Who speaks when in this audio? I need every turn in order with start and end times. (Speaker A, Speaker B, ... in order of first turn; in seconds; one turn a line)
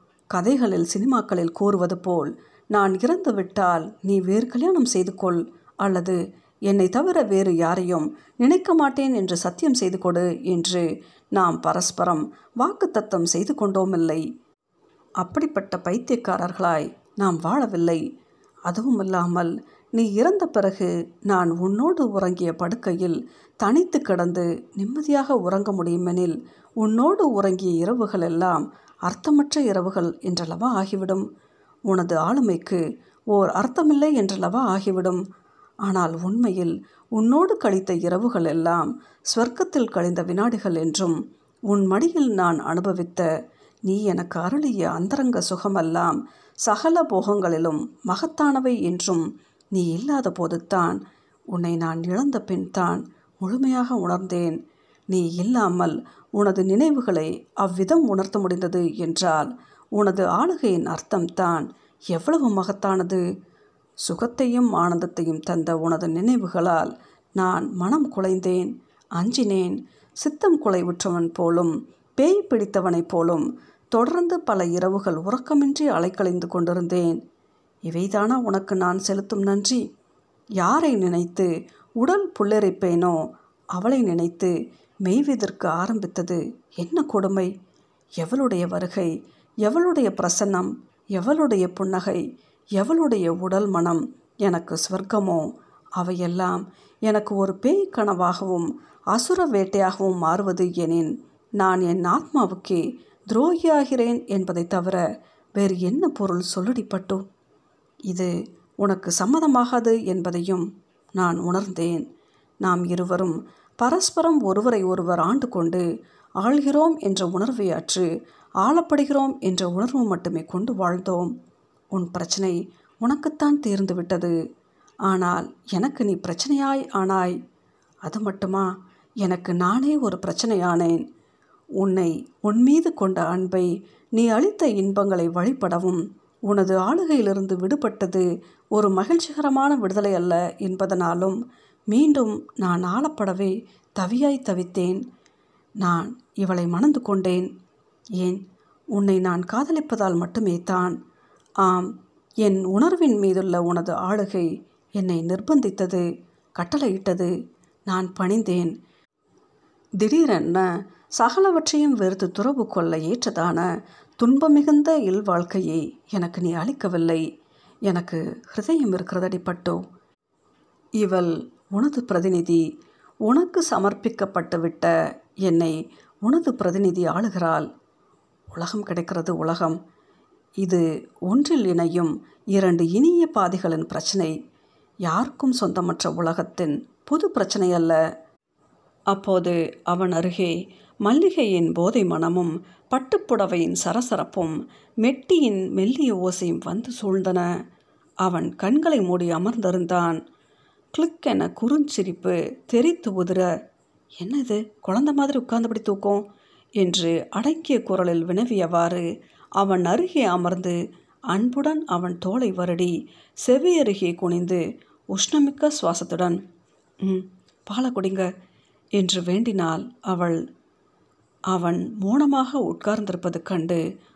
Speaker A: 0.3-14.2
Speaker A: 15.2-18.0
Speaker A: 18.7-31.2
Speaker A: 31.9-35.2
Speaker A: 35.8-41.2
Speaker A: 41.7-43.2
Speaker A: 43.9-51.0
Speaker A: 51.5-54.6
Speaker A: 55.1-63.2
Speaker A: 64.0-77.2
Speaker A: 77.8-79.8
Speaker A: 80.6-83.2
Speaker A: 83.7-87.5
Speaker A: 88.2-89.1
Speaker A: 89.6-92.2
Speaker A: 92.8-95.5
Speaker A: 96.0-105.0
Speaker A: 105.5-107.2
Speaker A: 108.1-110.6
Speaker A: 111.2-112.0
Speaker A: 112.6-115.8
Speaker A: 116.4-118.0
Speaker A: 118.6-121.3
Speaker A: 121.9-124.3
Speaker A: 125.0-127.3
Speaker A: 128.0-128.7
Speaker A: 129.2-131.0
Speaker A: 131.8-141.4
Speaker A: 141.9-145.0
Speaker A: 145.8-147.5
Speaker A: 148.9-150.9
Speaker A: 151.6-156.0
Speaker A: 156.6-157.3
Speaker A: 157.9-158.7
Speaker A: 160.0-163.7
Speaker A: 164.2-167.2
Speaker A: 167.9-169.8
Speaker A: 171.0-172.6
Speaker A: 173.2-174.9
Speaker A: 175.4-177.7
Speaker A: 178.5-179.8
Speaker A: 180.6-184.3
Speaker A: 185.1-188.0
Speaker A: 189.1-197.4
Speaker A: 198.2-200.2
Speaker A: 200.9-203.5
Speaker A: 204.2-206.2
Speaker A: 206.8-209.0
Speaker A: 209.6-210.8
Speaker A: 211.3-216.4
Speaker A: 217.0-218.3
Speaker A: 219.0-220.4
Speaker A: 221.5-223.8